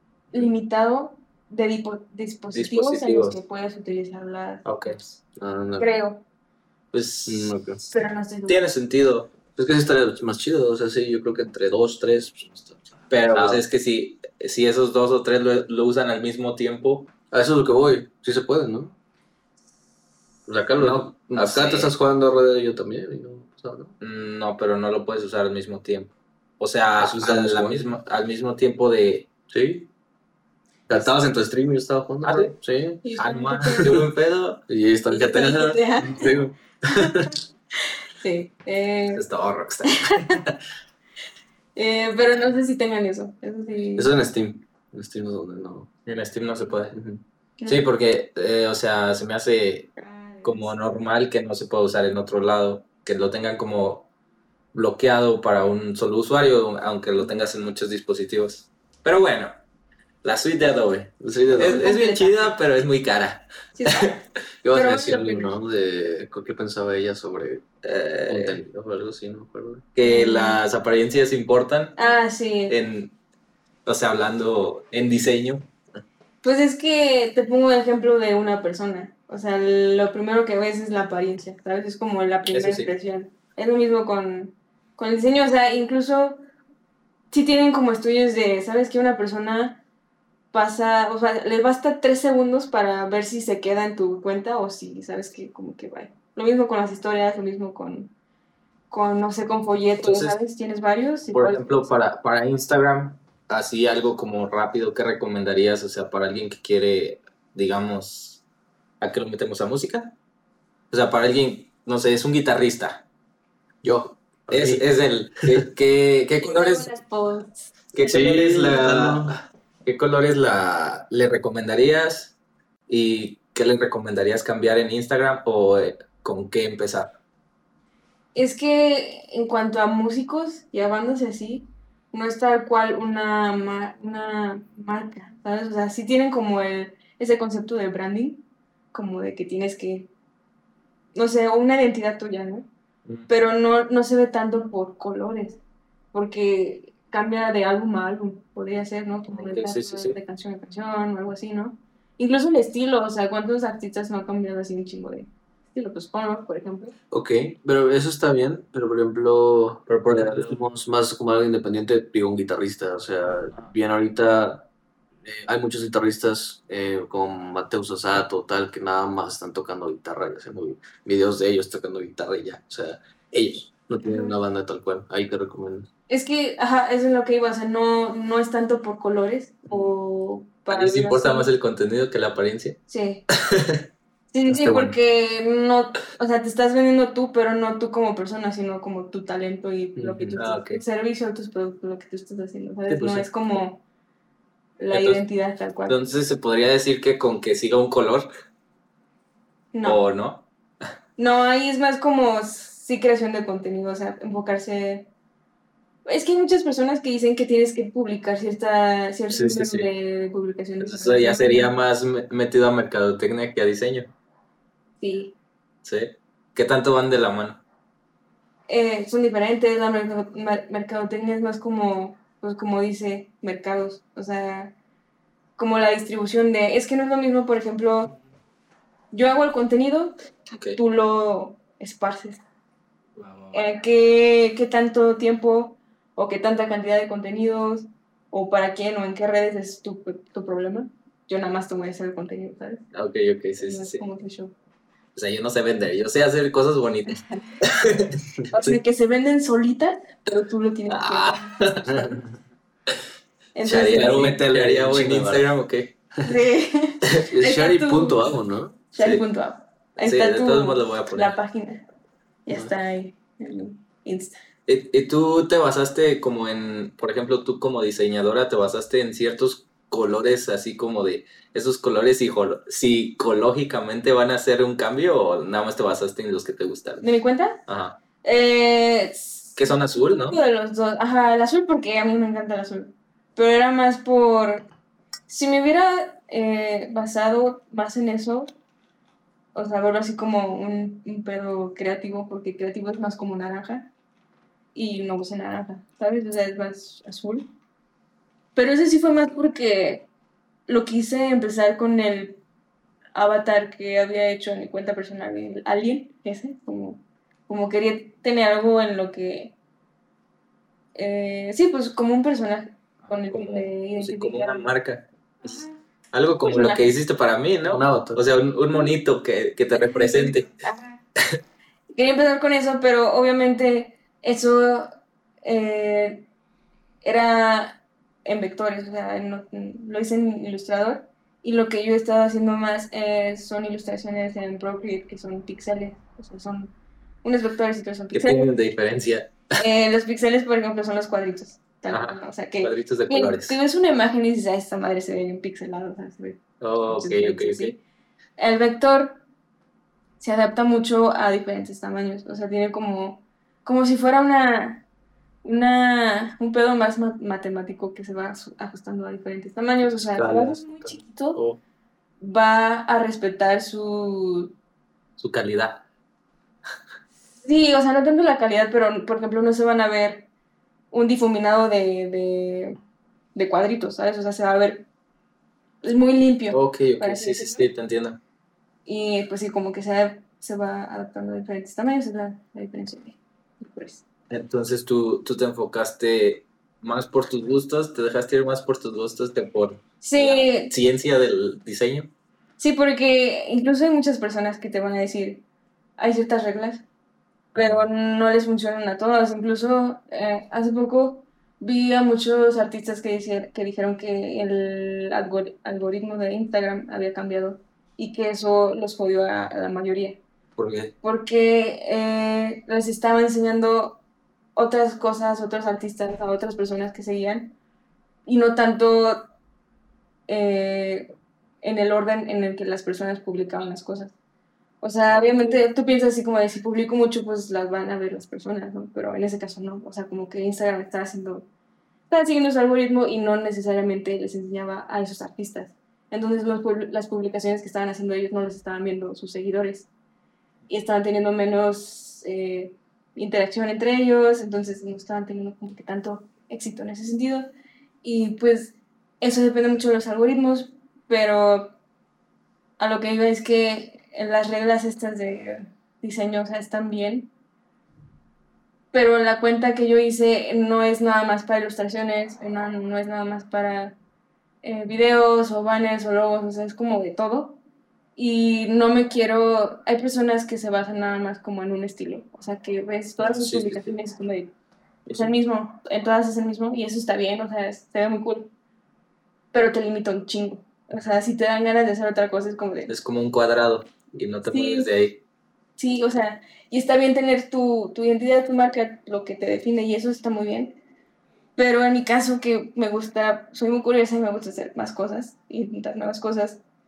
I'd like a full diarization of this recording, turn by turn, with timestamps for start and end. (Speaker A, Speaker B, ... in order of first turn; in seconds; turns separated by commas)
Speaker A: 0.3-4.7, Speaker B: 2.5-3.4, Speaker B: 4.6-5.0, Speaker C: 5.4-5.9, Speaker A: 5.8-6.2, Speaker B: 6.9-7.5, Speaker C: 7.2-7.8, Speaker A: 7.9-8.6, Speaker B: 8.5-9.3, Speaker C: 9.5-13.6, Speaker B: 13.1-17.1, Speaker C: 17.3-18.9, Speaker C: 20.4-23.9, Speaker B: 20.8-21.9, Speaker B: 24.0-29.3, Speaker C: 27.0-27.9, Speaker C: 29.5-29.9, Speaker C: 30.9-33.0, Speaker B: 32.2-32.5, Speaker A: 33.0-34.0, Speaker B: 33.2-34.6, Speaker C: 33.8-34.0, Speaker C: 34.7-37.3, Speaker A: 35.1-36.3, Speaker A: 36.9-37.2, Speaker A: 38.2-39.2, Speaker B: 39.1-40.5, Speaker A: 39.9-40.4, Speaker A: 41.8-44.1, Speaker C: 44.0-45.9, Speaker B: 46.0-47.0, Speaker C: 46.9-47.2, Speaker B: 47.7-54.1, Speaker A: 50.0-50.7, Speaker B: 54.7-59.5, Speaker B: 60.2-64.2, Speaker C: 61.2-61.9, Speaker A: 61.6-62.5, Speaker A: 63.8-65.5, Speaker C: 64.6-67.6, Speaker B: 67.8-68.6, Speaker C: 68.3-69.8, Speaker B: 69.9-72.1, Speaker A: 70.0-70.6, Speaker A: 72.0-72.8, Speaker B: 72.7-73.1, Speaker B: 73.8-75.7, Speaker A: 76.4-86.4, Speaker B: 82.5-82.9, Speaker A: 87.3-89.8, Speaker A: 90.5-98.1, Speaker A: 98.9-101.9, Speaker B: 100.0-100.4, Speaker B: 101.3-108.4, Speaker B: 109.0-110.1, Speaker B: 110.9-113.0, Speaker C: 113.8-114.9, Speaker B: 114.5-116.9, Speaker A: 116.4-117.7, Speaker B: 117.9-122.3, Speaker C: 118.0-119.4, Speaker B: 122.9-127.1, Speaker A: 128.3-140.1, Speaker A: 141.1-142.7, Speaker A: 143.3-145.6, Speaker A: 146.1-156.9, Speaker B: 149.3-150.2, Speaker C: 157.1-164.7, Speaker B: 159.9-160.6, Speaker C: 165.2-175.9, Speaker A: 174.0-174.3, Speaker A: 176.1-181.5, Speaker B: 180.7-182.8, Speaker A: 182.9-183.2, Speaker B: 183.4-183.8, Speaker A: 184.3-193.8, Speaker B: 184.6-184.9, Speaker C: 189.9-190.4, Speaker B: 190.4-190.8, Speaker B: 192.9-193.2, Speaker A: 194.8-196.0, Speaker B: 194.9-195.2, Speaker B: 195.8-198.3, Speaker A: 199.7-200.0, Speaker B: 199.8-200.4, Speaker A: 201.2-205.1, Speaker A: 206.0-211.7, Speaker B: 209.3-209.9, Speaker B: 210.8-214.1, Speaker A: 215.0-215.3, Speaker B: 215.8-217.6, Speaker A: 218.7-224.7, Speaker A: 225.6-228.2, Speaker A: 229.1-230.1, Speaker B: 230.5-230.8, Speaker A: 230.8-232.4, Speaker B: 233.2-233.6, Speaker A: 233.5-242.8, Speaker B: 242.9-244.0, Speaker A: 243.6-244.5, Speaker B: 245.1-248.8, Speaker A: 248.5-252.2, Speaker B: 250.9-252.2, Speaker A: 253.5-254.4, Speaker C: 253.7-255.4, Speaker B: 253.7-255.9, Speaker A: 256.2-258.4, Speaker C: 257.3-258.8, Speaker A: 258.9-261.8, Speaker B: 259.0-259.2, Speaker B: 260.0-261.4, Speaker A: 262.4-264.4, Speaker B: 264.7-277.0, Speaker A: 277.0-277.6, Speaker B: 277.7-278.0, Speaker A: 278.2-284.7, Speaker B: 279.6-280.4, Speaker A: 285.3-288.5, Speaker A: 289.5-293.9, Speaker A: 294.7-297.5, Speaker A: 298.5-300.1, Speaker A: 300.7-302.4, Speaker A: 303.1-309.5, Speaker A: 310.9-314.7, Speaker B: 313.0-320.5, Speaker A: 315.4-315.8, Speaker A: 316.4-316.9, Speaker C: 317.6-318.2, Speaker A: 319.7-321.0, Speaker A: 321.9-324.9, Speaker A: 325.4-326.3, Speaker A: 327.0-338.5, Speaker B: 338.1-339.5, Speaker A: 339.6-347.8, Speaker B: 341.9-343.6, Speaker B: 346.6-347.7, Speaker A: 348.4-349.2, Speaker A: 350.2-354.8, Speaker A: 355.4-361.4, Speaker B: 360.1-361.6, Speaker A: 362.2-364.5, Speaker B: 365.2-365.8, Speaker A: 367.4-370.3, Speaker A: 370.9-372.8, Speaker A: 373.3-374.9, Speaker A: 375.8-377.7, Speaker B: 376.5-378.2, Speaker A: 378.9-384.0, Speaker B: 384.3-392.1, Speaker A: 390.0-390.7, Speaker A: 392.6-395.4, Speaker A: 396.0-396.8, Speaker B: 397.5-397.9, Speaker A: 397.6-410.2, Speaker B: 410.6-410.9, Speaker A: 411.0-414.0, Speaker A: 414.5-417.5, Speaker A: 418.2-419.3, Speaker A: 420.3-424.1, Speaker A: 424.8-431.5, Speaker B: 425.1-425.6, Speaker A: 432.1-439.9, Speaker A: 440.7-447.5, Speaker A: 448.0-451.7, Speaker A: 452.8-457.3, Speaker A: 458.9-464.0, Speaker A: 464.6-467.6, Speaker A: 468.1-474.5, Speaker B: 473.2-474.0, Speaker B: 475.1-475.3, Speaker A: 475.1-478.5, Speaker A: 479.5-482.9, Speaker B: 482.9-485.2, Speaker A: 484.5-484.9, Speaker A: 485.8-490.8, Speaker A: 491.6-496.6